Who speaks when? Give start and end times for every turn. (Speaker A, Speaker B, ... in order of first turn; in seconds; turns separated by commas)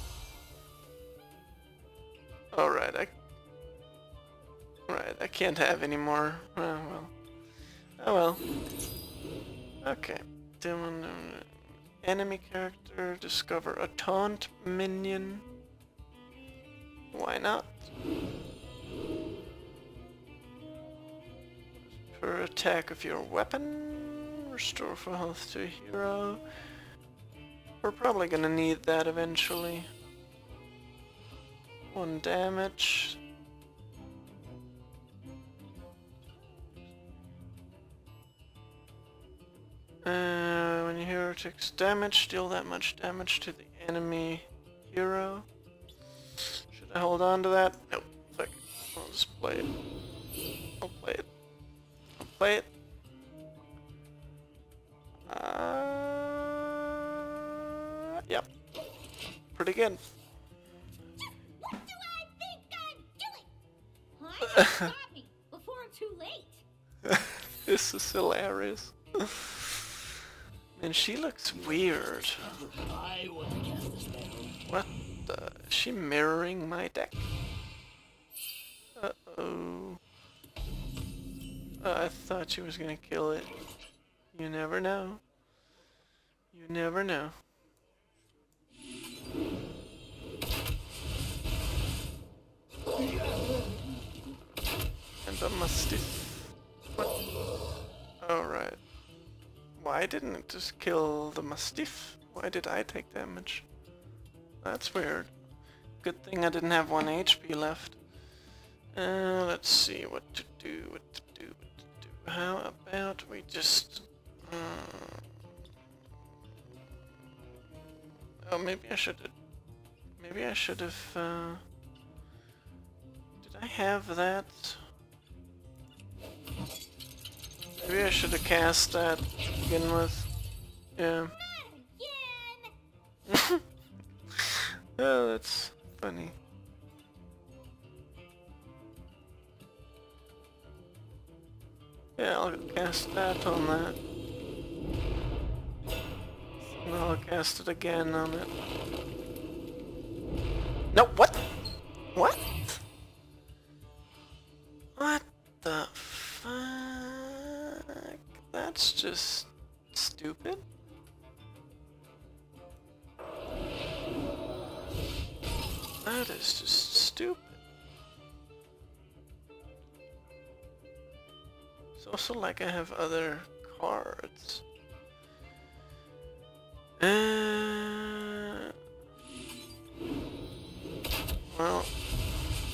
Speaker A: 2.5-3.1, Speaker A: 4.9-7.1, Speaker A: 8.0-8.4, Speaker A: 9.8-15.4, Speaker A: 17.1-17.9, Speaker A: 22.0-26.4, Speaker A: 27.8-29.9, Speaker A: 31.9-33.2, Speaker A: 40.0-45.5, Speaker A: 46.7-49.7, Speaker A: 50.8-51.3, Speaker A: 52.2-52.7, Speaker A: 55.3-57.1, Speaker A: 57.7-58.5, Speaker A: 59.5-60.0, Speaker B: 61.6-63.5, Speaker B: 64.2-66.6, Speaker A: 64.5-64.9, Speaker A: 67.7-69.8, Speaker A: 70.8-72.5, Speaker C: 72.4-74.7, Speaker A: 74.7-77.3, Speaker A: 79.0-80.0, Speaker A: 81.8-83.5, Speaker A: 84.3-85.2, Speaker A: 86.5-87.4, Speaker C: 93.0-94.2, Speaker A: 95.2-97.1, Speaker A: 98.2-98.8, Speaker A: 99.8-103.7, Speaker A: 104.6-105.3, Speaker A: 106.0-108.0, Speaker A: 109.0-115.3, Speaker A: 118.4-119.3, Speaker A: 120.2-121.6, Speaker A: 123.4-124.8, Speaker A: 127.8-130.3, Speaker A: 131.0-131.3, Speaker B: 131.4-132.7, Speaker A: 133.3-133.6, Speaker A: 134.3-136.4, Speaker A: 142.2-144.0, Speaker A: 146.7-148.5, Speaker A: 150.9-151.5, Speaker A: 152.2-152.8, Speaker A: 155.0-160.6, Speaker A: 166.0-167.6, Speaker A: 172.0-174.6, Speaker A: 177.0-178.7, Speaker A: 181.5-181.9